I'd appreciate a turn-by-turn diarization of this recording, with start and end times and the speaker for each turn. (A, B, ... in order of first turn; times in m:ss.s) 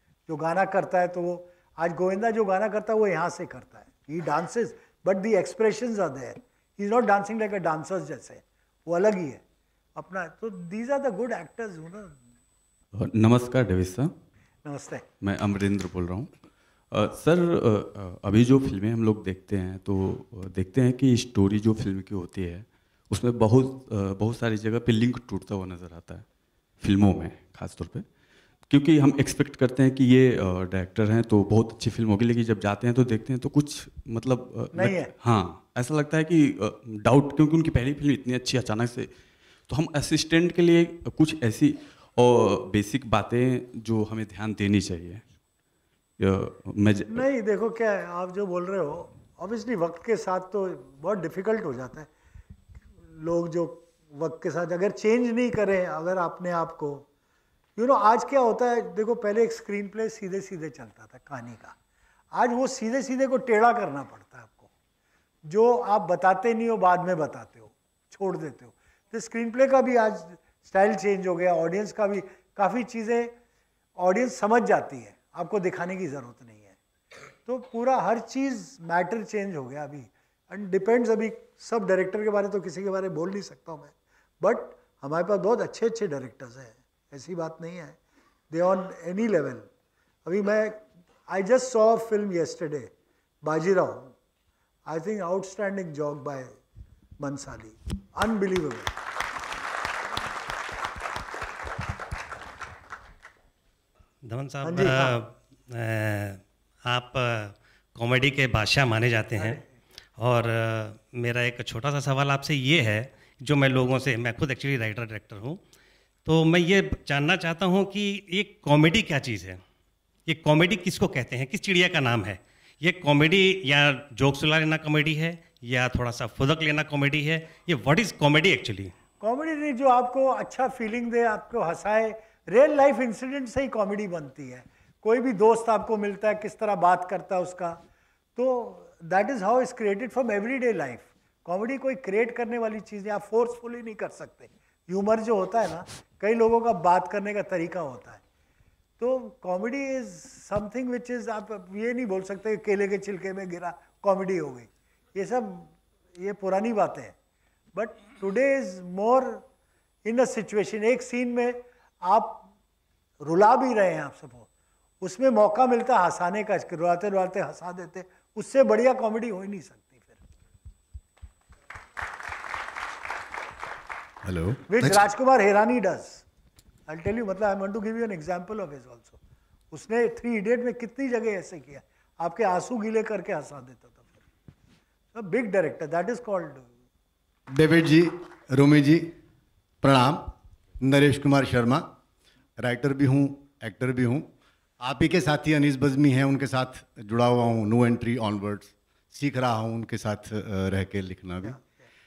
0:00.3-0:09.4 A
0:10.0-0:12.2 A
0:13.0-0:14.1 B
0:14.6-0:15.0 A
0:15.2-0:16.3 B
0:16.9-0:26.2 B
0:26.8-0:28.0 B
0:28.7-0:39.1 B
0:34.7-0:35.1 A
0:39.7-0:45.2 B
0:46.2-0:47.2 B
0:47.1-0:52.1 A
0:53.1-0:57.0 A
0:57.8-1:01.8 A
1:02.3-1:04.7 A
1:05.4-1:13.3 A
1:14.0-1:16.8 A
1:17.4-1:28.0 A
1:28.5-1:29.7 A
1:30.2-1:32.9 A
1:33.4-1:34.1 A
1:34.9-1:36.5 A
1:37.2-1:38.9 A
1:44.2-1:49.6 C
1:44.6-1:45.2 A
1:50.2-1:55.6 C
1:56.2-1:59.6 C
2:00.2-2:08.9 C
2:09.2-2:17.8 A
2:18.4-2:28.2 A
2:29.0-2:37.1 A
2:37.7-2:39.4 A
2:40.0-2:42.5 A
2:43.2-2:44.5 A
2:45.0-2:50.2 A
2:54.2-2:54.9 D
2:54.7-2:56.2 A
2:56.9-2:59.2 A
2:59.7-3:04.2 A
3:05.1-3:06.7 A
3:07.5-3:09.1 D
3:09.8-3:11.9 D
3:12.6-3:14.3 D
3:14.8-3:21.6 D